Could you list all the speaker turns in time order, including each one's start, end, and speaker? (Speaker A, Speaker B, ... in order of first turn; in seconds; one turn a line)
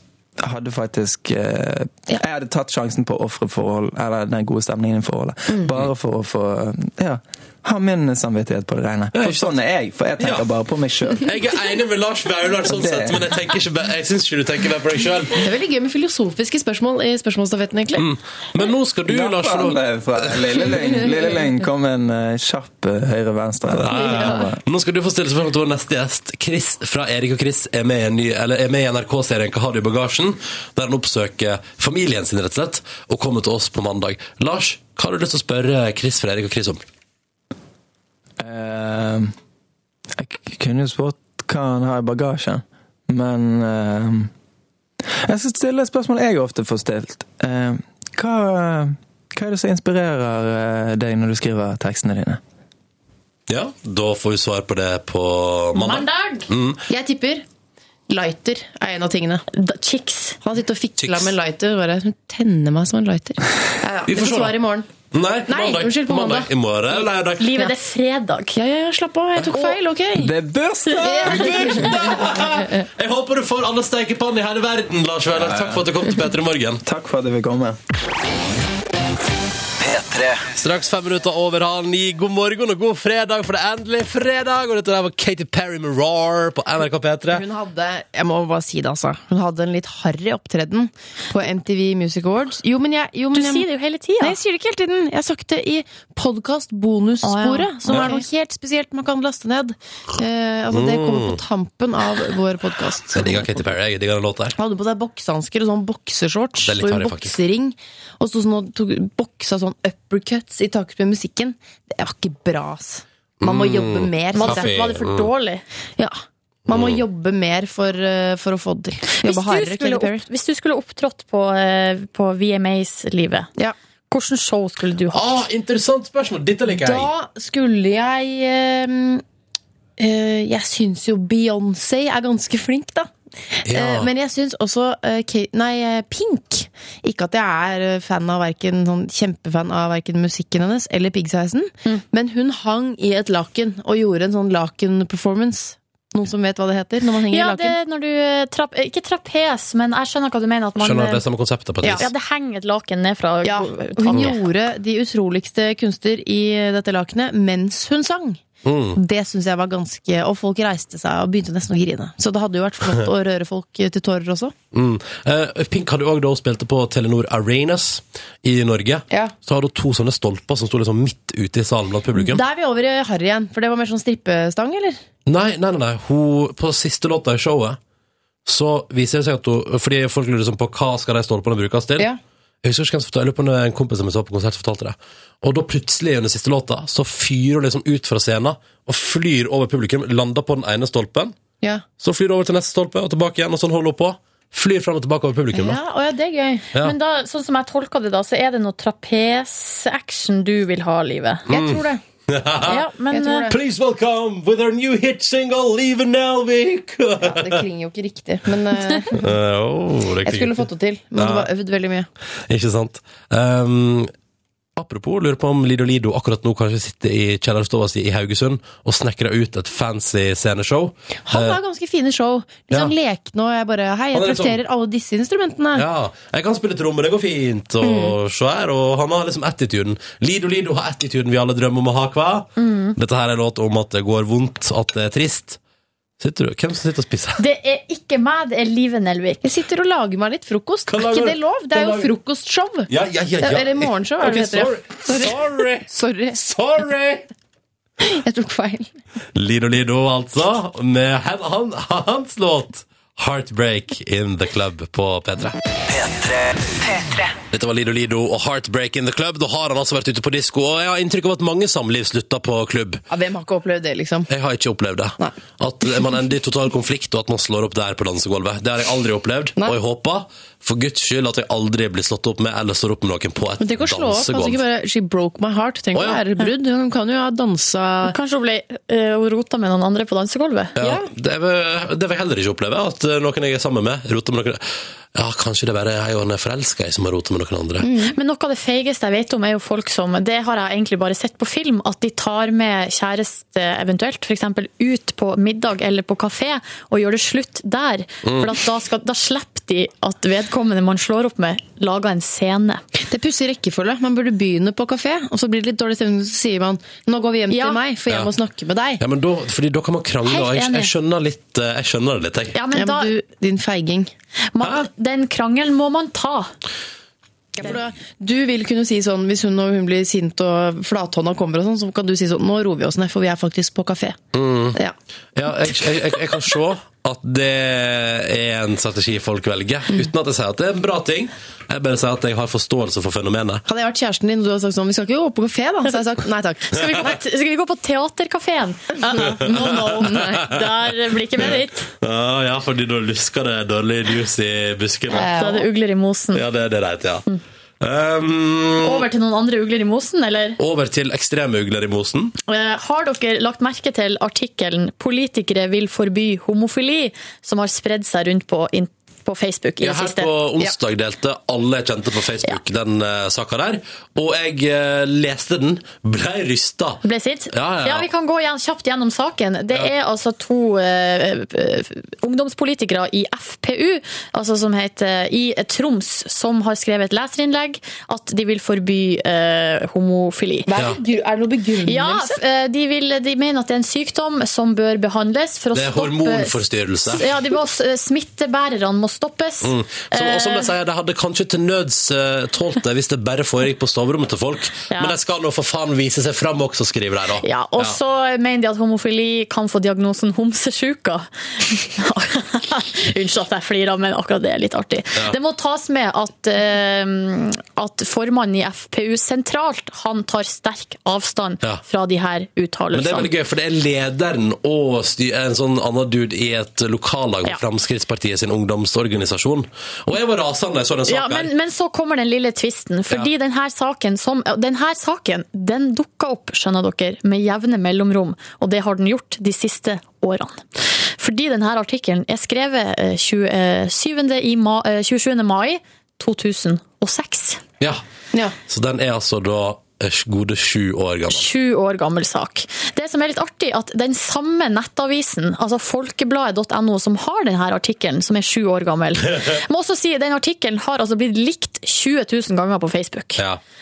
Speaker A: 0.4-11.3
Speaker B: 9.1-9.5
Speaker B: 10.2-10.4
Speaker B: 11.2-15.5
Speaker A: 12.6-13.3
Speaker C: 15.4-18.1
Speaker B: 17.9-19.8
Speaker A: 19.1-24.6
Speaker B: 23.7-36.8
Speaker A: 38.4-39.3
Speaker A: 40.1-44.3
Speaker A: 45.1-52.4
Speaker B: 53.5-56.8
Speaker D: 55.7-56.5
Speaker C: 56.9-57.5
Speaker C: 58.1-59.5
Speaker D: 59.5-60.4
Speaker C: 60.4-64.9
Speaker B: 61.0-61.3
Speaker B: 64.1-64.6
Speaker B: 65.1-67.5
Speaker C: 65.5-66.5
Speaker D: 67.4-68.6
Speaker C: 68.5-70.3
Speaker A: 70.1-72.2
Speaker D: 70.9-71.7
Speaker C: 71.0-72.8
Speaker B: 71.9-76.8
Speaker A: 75.3-75.9
Speaker A: 76.8-77.8
Speaker E: 79.8-80.4
Speaker B: 80.5-87.4
Speaker C: 87.3-93.7
Speaker D: 93.3-94.4
Speaker C: 94.2-103.6
Speaker D: 97.2-98.2
Speaker B: 100.7-101.4
Speaker B: 103.1-104.5
Speaker C: 104.5-114.8
Speaker B: 106.6-107.3
Speaker B: 113.4-115.3
Speaker D: 114.3-115.6
Speaker C: 116.7-120.2
Speaker B: 116.7-117.0
Speaker D: 119.2-123.5
Speaker D: 124.1-125.4
Speaker B: 125.1-127.1
Speaker C: 126.7-129.2
Speaker C: 130.0-147.8
Speaker B: 133.7-134.1
Speaker D: 147.3-151.2
Speaker B: 150.8-152.1
Speaker C: 151.8-152.1
Speaker D: 151.9-154.3
Speaker C: 153.4-158.4
Speaker B: 158.6-159.0
Speaker C: 158.9-164.5
Speaker B: 164.7-172.4
Speaker C: 172.2-175.0
Speaker B: 175.2-177.8
Speaker B: 178.4-182.1
Speaker B: 182.6-191.3
Speaker B: 192.0-195.8
Speaker C: 195.5-196.7
Speaker D: 196.8-201.4
Speaker C: 201.5-202.0
Speaker B: 201.5-202.8
Speaker D: 202.6-203.5
Speaker C: 203.1-203.6
Speaker B: 203.5-207.6
Speaker C: 207.2-209.2
Speaker B: 209.1-211.5
Speaker C: 210.2-212.1
Speaker B: 212.5-214.1
Speaker B: 214.8-221.6
Speaker C: 221.3-225.8
Speaker B: 224.1-224.6
Speaker B: 225.7-235.6
Speaker C: 227.8-228.1
Speaker D: 232.6-232.9
Speaker B: 236.2-237.4
Speaker D: 237.4-239.4
Speaker C: 239.4-242.9
Speaker B: 240.9-242.1
Speaker B: 242.9-247.2
Speaker C: 243.4-246.4
Speaker C: 248.0-248.9
Speaker B: 249.3-255.5
Speaker E: 255.9-257.3
Speaker B: 257.5-263.0
Speaker C: 263.1-264.3
Speaker B: 264.3-274.6
Speaker C: 273.6-278.1
Speaker B: 275.9-276.2
Speaker D: 278.0-280.7
Speaker B: 280.8-284.6
Speaker C: 280.8-281.1
Speaker B: 285.1-287.9
Speaker C: 287.8-288.1
Speaker D: 288.0-302.8
Speaker B: 298.2-298.5
Speaker C: 303.0-309.0
Speaker D: 307.5-307.8
Speaker B: 309.0-312.5
Speaker D: 310.2-310.9
Speaker D: 312.5-313.1
Speaker C: 312.7-314.1
Speaker D: 314.5-316.5
Speaker B: 314.6-314.9
Speaker C: 317.5-324.2
Speaker B: 324.3-324.8
Speaker B: 325.3-333.6
Speaker C: 333.7-337.1
Speaker D: 336.7-341.9
Speaker C: 339.1-340.6
Speaker B: 339.5-340.4
Speaker B: 341.4-345.3
Speaker C: 345.1-345.7
Speaker D: 345.1-346.4
Speaker B: 346.3-347.3
Speaker B: 347.8-349.1
Speaker D: 348.8-350.6
Speaker B: 350.6-352.3
Speaker D: 352.4-360.3
Speaker B: 359.8-368.1
Speaker D: 367.0-380.7
Speaker C: 380.7-382.4
Speaker D: 381.9-386.6
Speaker B: 385.7-387.2
Speaker D: 387.1-390.7
Speaker B: 389.6-398.0
Speaker D: 394.9-395.1
Speaker D: 397.4-413.3
Speaker B: 412.9-421.5
Speaker D: 421.1-437.6
Speaker B: 438.7-441.5
Speaker D: 441.3-453.4